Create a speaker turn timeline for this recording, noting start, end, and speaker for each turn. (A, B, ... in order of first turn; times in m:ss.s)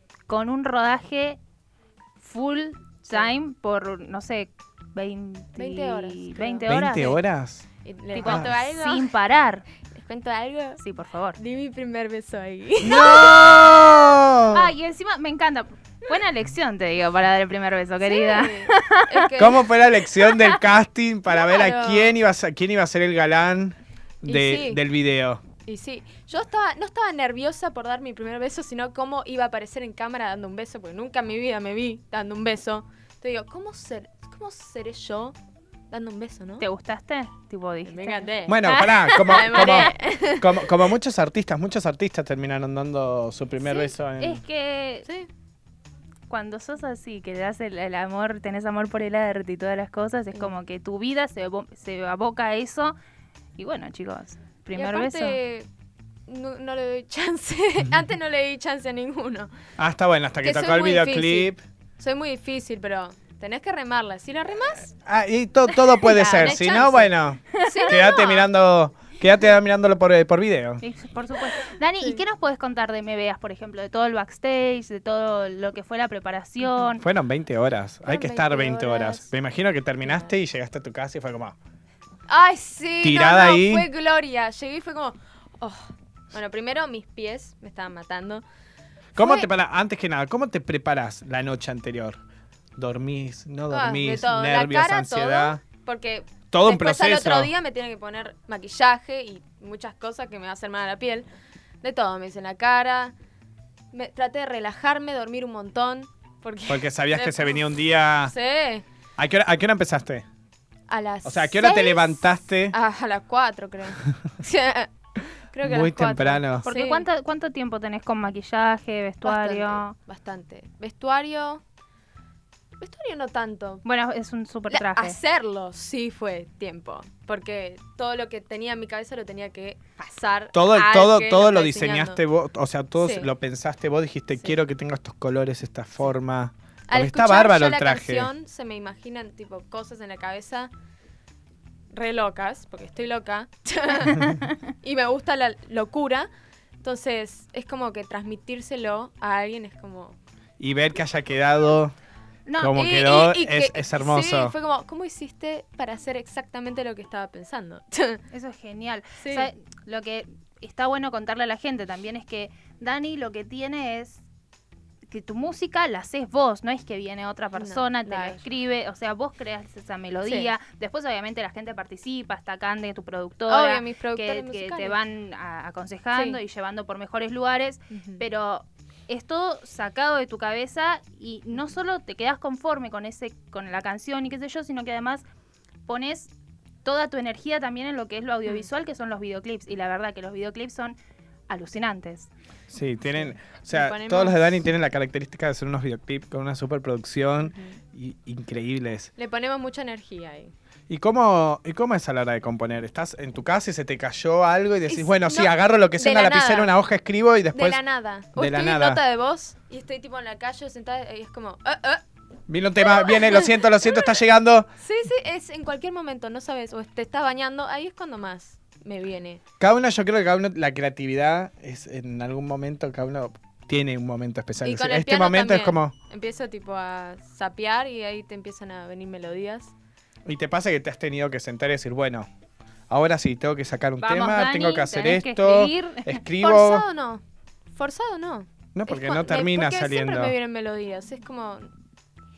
0:00.3-0:01.4 A
0:02.2-0:07.2 A
0:05.6-0:06.7 B
0:06.7-0:07.6 C
0:07.8-0:09.1 B
0:08.1-0:09.6 A
0:08.2-0:08.5 C
0:09.9-0:10.8 B
0:10.8-0:11.4 A
0:11.4-0:13.9 B
0:12.8-0:14.7 C
0:14.5-0:19.1 A
0:18.0-0:19.7 B
0:19.4-0:25.4 C
0:21.3-0:22.1 B
0:24.2-0:24.8 B
0:25.6-0:35.4 B
0:35.9-0:36.6 B
0:36.6-0:39.9 A
0:37.8-0:40.7 B
0:38.4-0:44.4 C
0:44.2-0:45.1 A
0:46.3-0:53.0 A
0:53.6-0:55.4 A
0:54.7-0:55.7 B
0:56.3-0:59.5 B
0:59.8-1:01.6 C
1:00.4-1:04.9 B
1:04.9-1:10.8 C
1:06.1-1:06.6 A
1:06.1-1:08.5 B
1:07.6-1:07.9 A
1:10.8-1:17.0 A
1:17.0-1:21.6 C
1:18.0-1:19.3 B
1:22.3-1:28.4 B
1:23.0-1:23.9 C
1:29.2-1:29.5 B
1:29.2-1:32.2 C
1:32.8-1:35.6 C
1:33.7-1:41.3 B
1:36.5-1:37.5 C
1:41.8-1:43.1 B
1:43.9-1:47.6 B
1:46.7-1:48.3 C
1:48.2-1:48.8 B
1:49.2-1:50.2 C
1:50.9-1:57.0 B
1:51.2-1:52.8 C
1:55.6-1:56.6 C
1:56.6-1:59.9 A
1:59.2-2:01.6 B
2:02.8-2:03.8 B
2:03.8-2:05.2 A
2:04.7-2:12.2 B
2:10.5-2:18.3 C
2:13.0-2:13.3 B
2:16.9-2:20.7 B
2:21.9-2:24.3 B
2:24.2-2:24.5 A
2:24.8-2:26.3 B
2:26.8-2:30.2 B
2:30.6-2:31.9 C
2:32.5-2:32.7 A
2:32.6-2:34.5 C
2:32.7-2:38.2 B
2:38.3-2:44.2 A
2:39.2-2:39.5 B
2:45.1-3:05.2 A
2:47.6-2:48.4 B
2:50.2-2:50.5 B
2:53.5-2:55.0 B
2:56.1-2:56.4 B
2:57.9-2:58.2 B
3:05.9-3:06.3 A
3:06.8-3:11.0 A
3:11.5-3:12.3 A
3:12.7-3:19.1 C
3:13.2-3:14.6 B
3:17.5-3:17.8 B
3:19.2-3:20.5 B
3:20.9-3:27.8 C
3:24.9-3:26.7 B
3:27.5-3:32.0 B
3:28.4-3:29.0 C
3:32.5-3:34.7 C
3:32.8-3:34.2 B
3:34.8-3:39.4 B
3:39.6-3:45.9 C
3:44.6-3:49.7 B
3:50.2-3:52.3 C
3:52.9-3:56.8 C
3:54.0-3:56.2 A
3:56.4-3:57.2 B
3:57.8-4:01.7 B
3:58.7-4:00.3 C